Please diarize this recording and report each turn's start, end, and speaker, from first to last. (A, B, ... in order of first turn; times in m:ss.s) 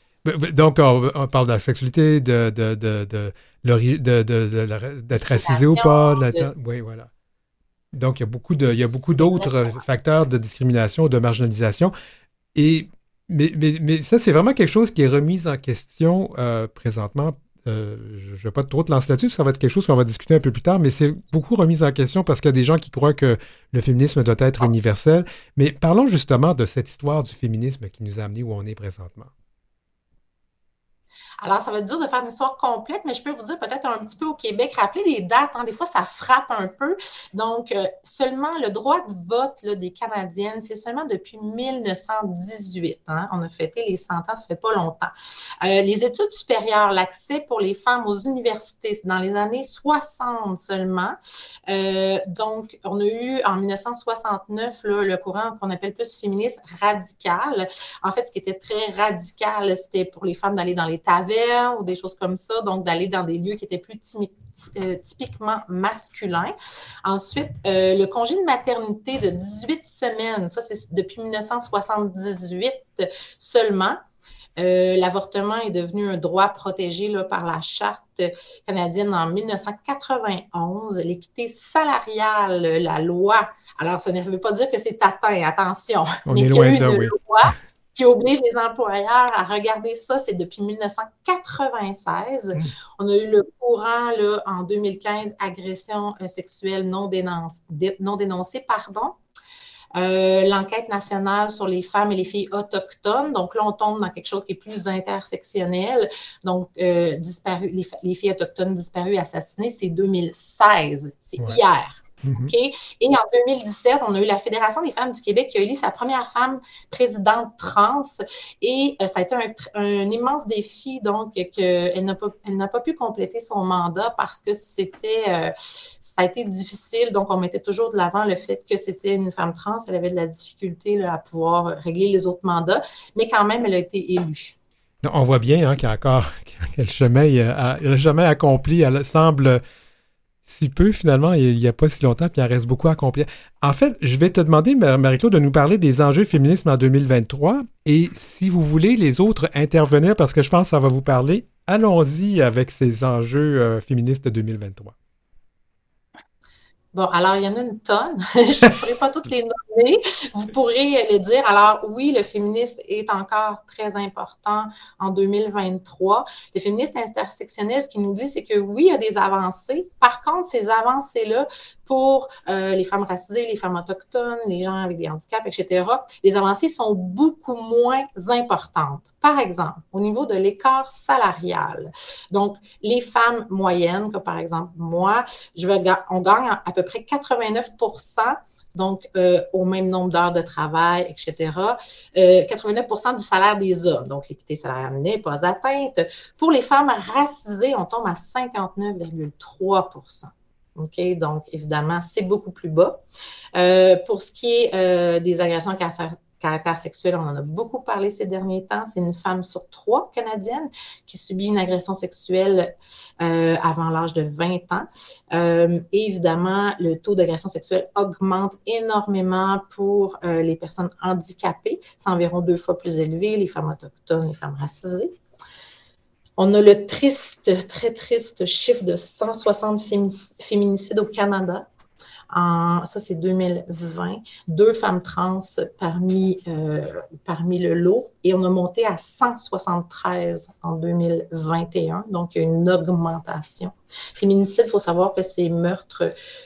0:00.2-0:07.1 A
0:05.2-0:06.5 B
0:07.9-0:11.9 A
0:09.2-0:09.7 B
0:12.6-0:29.3 A
0:31.4-1:14.0 B
1:14.6-1:39.2 B
1:26.3-1:27.1 A
1:40.0-2:14.6 B
1:52.2-1:52.5 A
2:15.0-2:19.6 A
2:20.5-2:34.9 A
2:36.9-3:23.0 B
3:23.6-3:45.2 B
3:46.4-3:51.7 B
3:52.3-4:06.1 B